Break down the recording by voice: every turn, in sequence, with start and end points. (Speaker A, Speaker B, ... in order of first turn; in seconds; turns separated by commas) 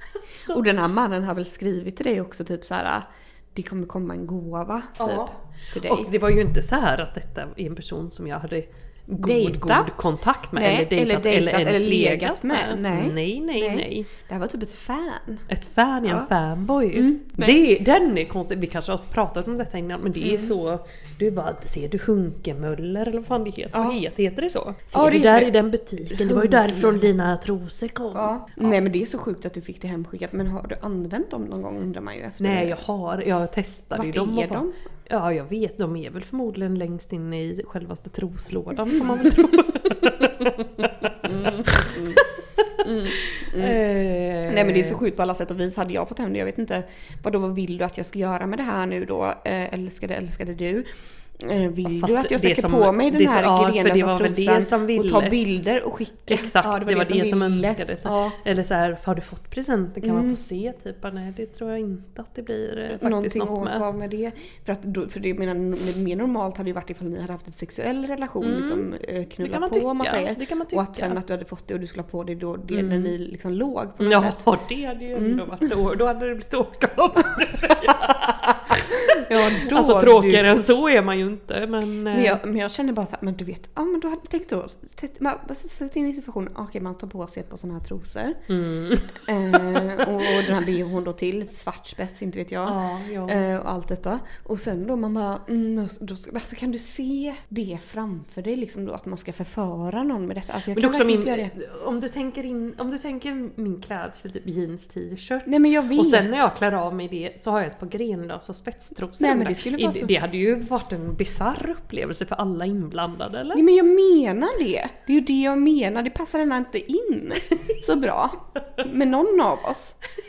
Speaker A: 0.4-6.1, Speaker B: 5.0-14.1, Speaker A: 9.2-15.5, Speaker B: 15.5-28.7, Speaker A: 16.9-17.6, Speaker A: 20.2-20.5, Speaker A: 23.7-24.0, Speaker A: 24.9-27.1, Speaker A: 28.1-32.8, Speaker B: 32.4-45.0, Speaker A: 33.9-34.8, Speaker A: 40.0-40.3, Speaker A: 41.0-42.2, Speaker A: 42.8-43.8, Speaker A: 44.5-50.9, Speaker A: 51.4-58.4, Speaker B: 52.0-55.6, Speaker B: 56.3-63.8, Speaker A: 60.0-60.4, Speaker A: 62.9-74.4, Speaker B: 68.4-68.9, Speaker B: 69.4-71.2, Speaker B: 72.7-73.1, Speaker B: 74.0-82.4, Speaker A: 75.1-75.7, Speaker A: 78.7-80.4, Speaker A: 82.1-88.4, Speaker B: 88.5-90.6, Speaker A: 89.2-101.5, Speaker B: 92.6-93.4, Speaker B: 100.7-113.6, Speaker A: 105.5-106.3, Speaker A: 109.2-110.1, Speaker A: 113.5-120.0